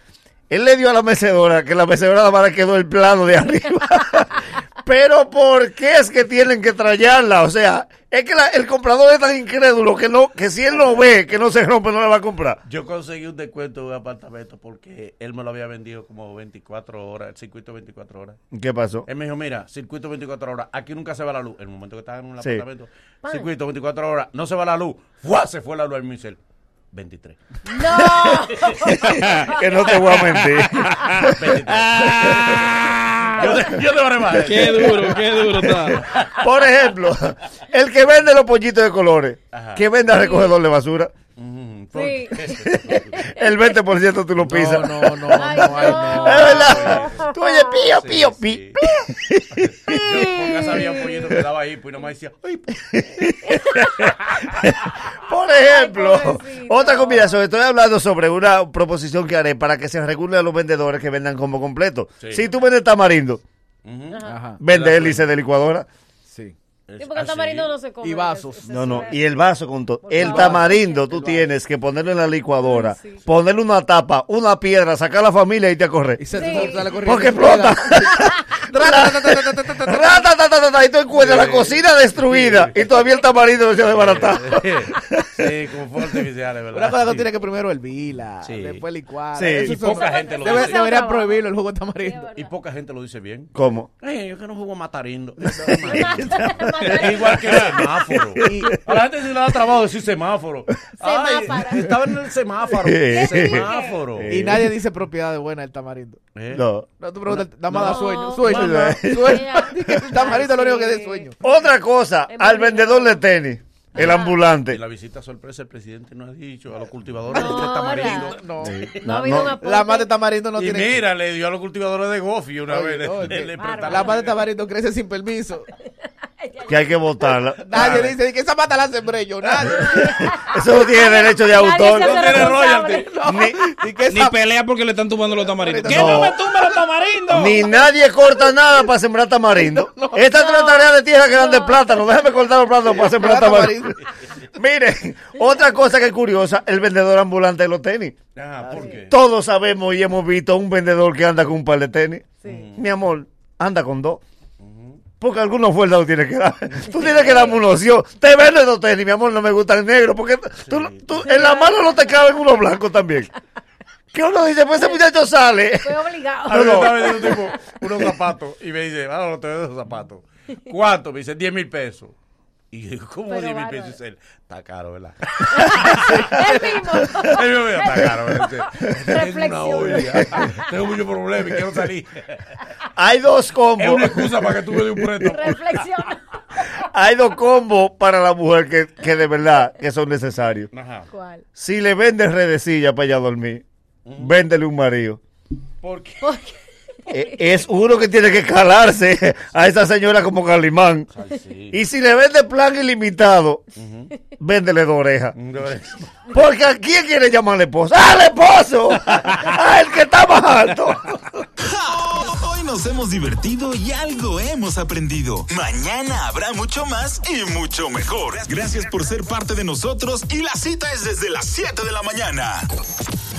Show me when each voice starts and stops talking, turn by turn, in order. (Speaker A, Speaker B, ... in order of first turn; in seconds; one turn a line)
Speaker A: 0.5-12.6
Speaker B: 12.6-18.4
Speaker A: 18.5-19.1
Speaker B: 19.1-26.4
Speaker C: 23.2-23.5
Speaker B: 26.9-27.4
Speaker C: 27.6-30.3
Speaker B: 28.0-28.9
Speaker D: 29.0-29.5
Speaker A: 29.5-31.5
Speaker D: 30.1-33.5
Speaker B: 31.2-36.5
Speaker A: 32.0-32.4
Speaker C: 32.8-33.7
Speaker D: 34.3-36.0
Speaker A: 36.4-41.1
Speaker B: 39.5-39.8
Speaker C: 40.1-40.5
Speaker B: 41.4-43.2
Speaker C: 41.9-43.5
Speaker A: 42.6-50.3
Speaker E: 44.4-46.7
Speaker C: 45.3-47.8
Speaker B: 46.1-47.3
Speaker B: 47.9-48.8
Speaker B: 49.5-53.4
Speaker C: 49.9-51.3
Speaker A: 52.9-54.0
Speaker C: 53.6-54.1
Speaker B: 54.1-54.6
Speaker A: 54.6-63.4
Speaker C: 55.5-57.3
Speaker B: 62.2-62.5
Speaker B: 63.8-65.4
Speaker C: 64.1-64.5
Speaker E: 64.2-64.6
Speaker A: 64.6-65.9
Speaker E: 66.3-66.5
Speaker B: 66.9-67.7
Speaker C: 67.0-69.4
Speaker E: 68.0-69.1
Speaker A: 68.7-76.2
Speaker C: 70.0-71.1
Speaker E: 70.2-71.5
Speaker C: 72.6-73.2
Speaker E: 76.2-80.2
Speaker C: 76.3-77.0
Speaker A: 76.8-85.4
Speaker B: 81.1-82.9
Speaker C: 82.9-83.2
Speaker B: 83.8-87.3
Speaker E: 86.7-92.2
Speaker B: 88.4-88.8
Speaker A: 89.3-89.8
Speaker B: 89.6-90.8
Speaker C: 89.9-92.5
Speaker B: 92.3-104.3
Speaker A: 93.5-93.9
Speaker A: 95.6-98.8
Speaker C: 95.8-97.5
Speaker E: 98.4-98.8
Speaker C: 101.0-102.2
Speaker A: 102.8-104.7
Speaker C: 103.1-104.0
Speaker E: 104.2-106.2
Speaker B: 106.3-106.6
Speaker A: 106.5-106.9
Speaker E: 107.0-111.3
Speaker B: 107.3-109.0
Speaker C: 107.8-111.6
Speaker A: 108.4-109.4
Speaker A: 111.4-114.8
Speaker C: 112.3-113.2
Speaker C: 114.0-114.4
Speaker B: 114.0-119.1
Speaker E: 117.3-118.8
Speaker C: 117.3-118.3
Speaker A: 118.6-119.5
Speaker C: 119.0-120.1
Speaker E: 119.6-121.0
Speaker B: 120.5-124.4
Speaker E: 122.7-125.7
Speaker C: 123.5-124.3
Speaker C: 125.8-127.3
Speaker A: 126.7-128.1
Speaker E: 127.7-130.0
Speaker B: 127.7-128.2
Speaker C: 129.6-133.3
Speaker A: 130.4-132.5
Speaker B: 131.7-133.1
Speaker E: 133.0-134.4
Speaker A: 133.3-133.6
Speaker D: 134.1-137.6
Speaker E: 135.6-136.4
Speaker A: 135.9-136.3
Speaker A: 137.3-143.9
Speaker C: 137.6-137.9
Speaker E: 139.5-140.4
Speaker C: 140.3-142.1
Speaker E: 142.9-143.9
Speaker A: 144.5-148.2
Speaker B: 148.3-149.1
Speaker A: 149.0-154.2
Speaker C: 152.4-152.7
Speaker B: 152.4-152.9
Speaker B: 154.6-155.0
Speaker A: 155.2-163.3
Speaker C: 156.9-157.6
Speaker B: 160.6-161.2
Speaker C: 161.2-162.4
Speaker A: 164.1-167.2
Speaker C: 164.7-165.0
Speaker C: 165.8-167.8
Speaker B: 166.5-172.1
Speaker B: 172.7-182.6
Speaker C: 173.2-174.0
Speaker C: 175.5-180.7
Speaker A: 182.9-185.5
Speaker B: 183.8-185.6
Speaker C: 185.2-186.8
Speaker A: 186.6-190.7
Speaker B: 190.7-191.1
Speaker C: 191.1-191.4
Speaker A: 191.6-193.6
Speaker B: 194.0-194.3
Speaker A: 194.2-195.2
Speaker B: 195.8-196.3
Speaker C: 196.2-197.7
Speaker A: 197.1-201.1
Speaker B: 201.1-201.8
Speaker A: 201.7-203.6
Speaker B: 203.8-204.1
Speaker A: 204.4-205.4
Speaker B: 205.3-206.2
Speaker A: 206.3-211.4
Speaker B: 209.0-209.6
Speaker F: 211.6-222.7